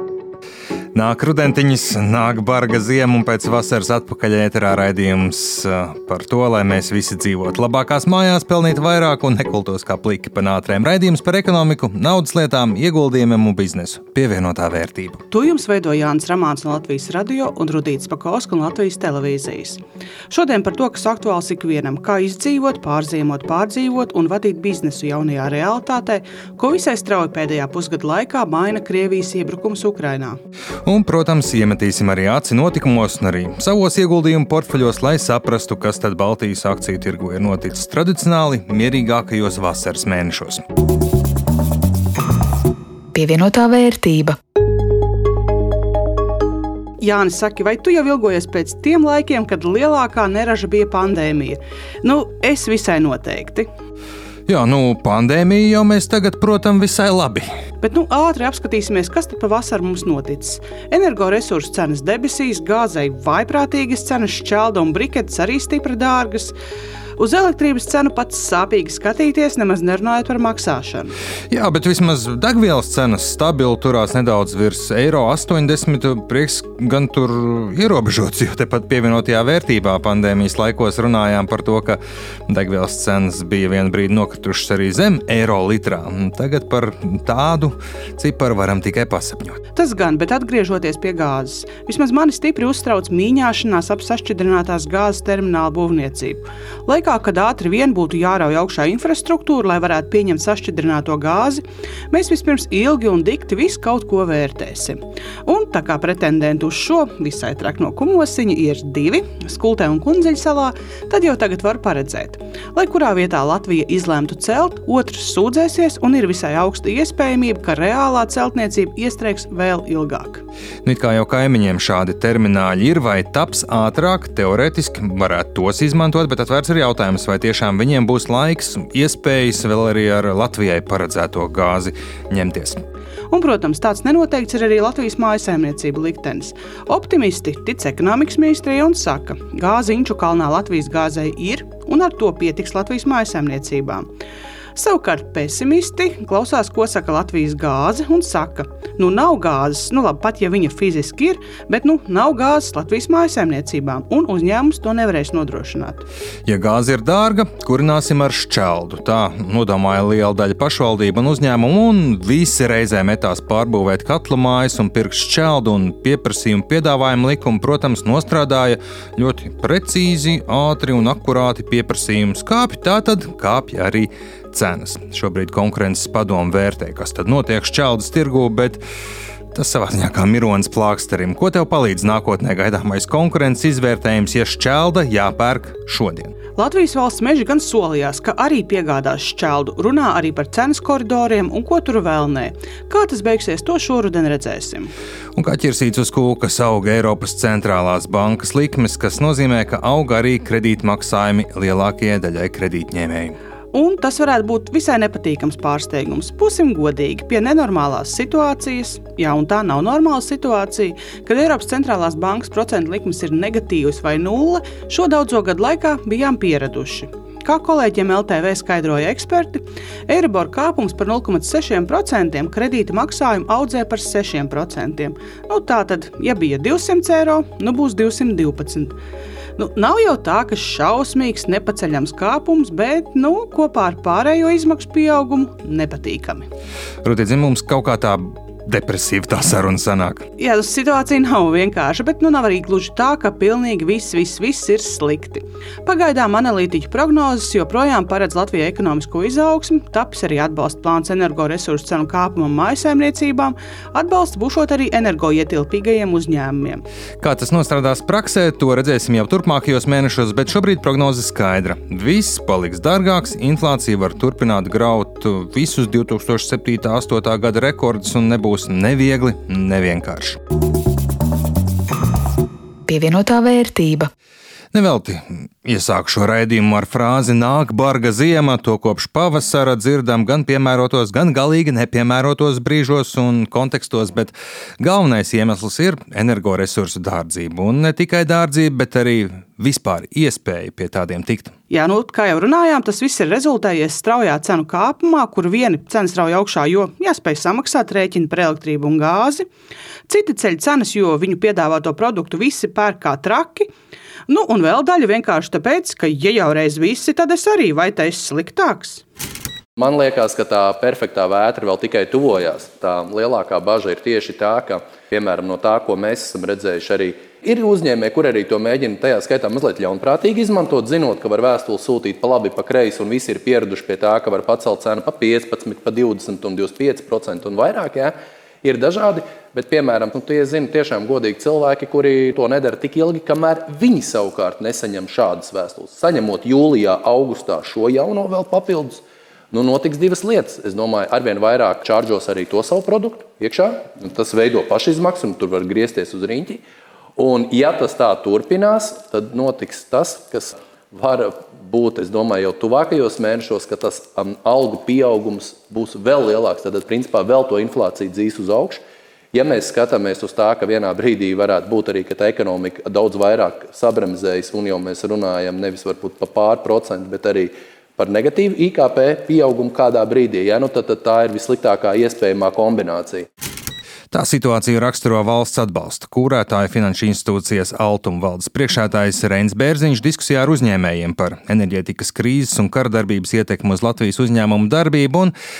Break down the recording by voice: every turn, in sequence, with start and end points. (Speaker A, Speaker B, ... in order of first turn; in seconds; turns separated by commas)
Speaker A: 0.9-15.2, Speaker B: 15.3-30.4, Speaker A: 30.8-40.6, Speaker C: 43.1-44.4, Speaker B: 47.0-53.7, Speaker A: 54.5-57.5, Speaker B: 57.8-66.5, Speaker B: 67.2-71.1, Speaker A: 71.5-89.6, Speaker B: 89.7-120.4, Speaker A: 120.8-132.8, Speaker B: 133.3-144.1, Speaker B: 144.7-156.0, Speaker A: 156.4-178.8, Speaker A: 179.5-186.3, Speaker B: 186.6-194.9, Speaker A: 195.3-203.3, Speaker B: 203.7-229.0, Speaker B: 229.6-236.5, Speaker A: 237.0-240.2, Speaker B: 240.4-256.8, Speaker A: 257.2-270.4, Speaker C: 272.9-274.1, Speaker A: 274.7-291.5, Speaker B: 291.7-299.4, Speaker B: 300.1-303.7, Speaker B: 304.3-309.0, Speaker D: 309.8-346.6, Speaker D: 347.2-358.8, Speaker D: 359.3-373.2, Speaker A: 374.1-385.3